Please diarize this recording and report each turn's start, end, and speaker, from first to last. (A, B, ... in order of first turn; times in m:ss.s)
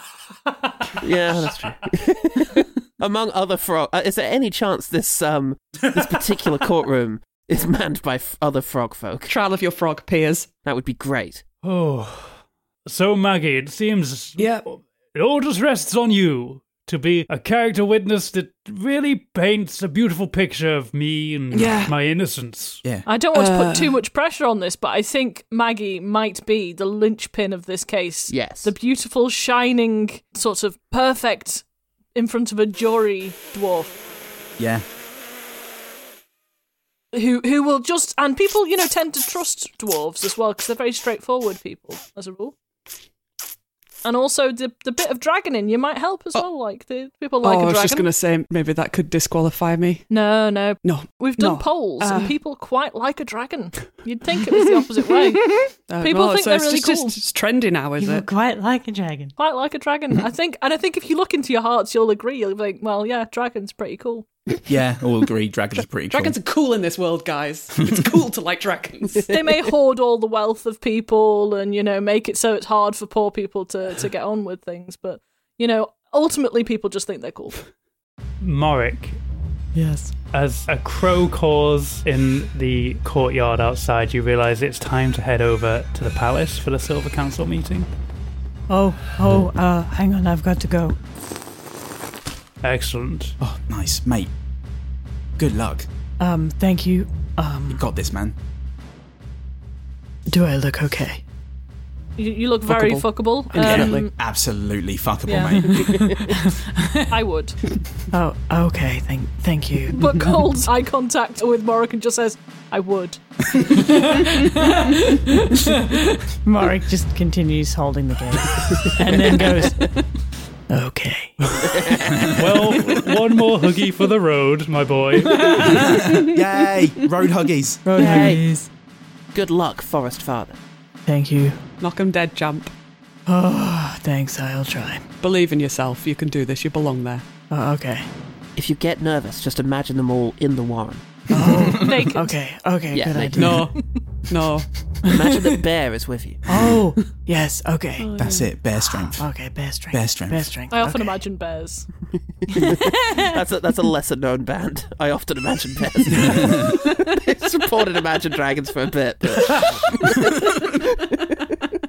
0:01.0-0:09.3 A
0:09.3-0:10.5 B
0:10.6-0:11.4 A
0:11.6-0:22.8 C
0:14.4-0:14.6 B
0:21.5-0:21.9 B
0:23.0-0:34.0 D
0:23.3-0:23.9 B
0:28.3-0:28.7 A
0:34.6-0:34.8 E
0:37.1-0:42.5 D
0:44.0-0:48.1 D
0:47.4-0:50.1 B
0:50.1-0:57.2 D
0:50.8-0:52.4 B
0:55.5-0:58.2 B
0:58.0-0:59.3 F
0:59.4-1:04.3 D
1:04.6-1:06.4 E
1:06.1-1:09.4 B
1:09.2-1:17.6 D
1:18.4-1:19.2 C
1:19.7-1:20.1 F
1:20.3-1:27.9 C
1:28.7-1:31.0 F
1:32.6-1:33.4 C
1:33.4-1:34.3 E
1:35.4-1:35.9 E
1:36.2-1:37.9 F
1:37.7-1:38.4 E
1:40.3-1:41.2 F
1:42.2-1:44.1 D
1:42.7-1:44.1 B
1:43.6-1:46.2 E
1:45.3-1:46.1 D
1:46.1-1:47.0 F
1:47.1-1:47.6 D
1:48.1-1:50.0 F
1:49.9-1:53.2 D
1:54.0-1:59.9 F
2:00.7-2:01.7 F
2:01.6-2:05.8 C
2:01.6-2:02.3 A
2:02.0-2:03.0 E
2:05.3-2:06.1 F
2:05.6-2:07.9 E
2:07.8-2:08.7 F
2:08.0-2:08.4 A
2:09.3-2:10.6 A
2:11.0-2:11.6 F
2:11.8-2:12.7 B
2:13.3-2:15.1 F
2:15.2-2:17.3 B
2:17.5-2:18.1 F
2:18.6-2:21.2 A
2:21.3-2:23.7 F
2:21.5-2:21.9 E
2:21.7-2:22.3 D
2:22.9-2:23.7 A
2:23.4-2:24.7 B
2:25.0-2:26.4 A
2:26.5-2:28.2 F
2:28.0-2:28.5 B
2:28.2-2:29.3 E
2:29.0-2:31.1 F
2:29.9-2:30.5 E
2:30.7-2:31.9 D
2:32.4-2:41.4 A
2:36.1-2:36.7 E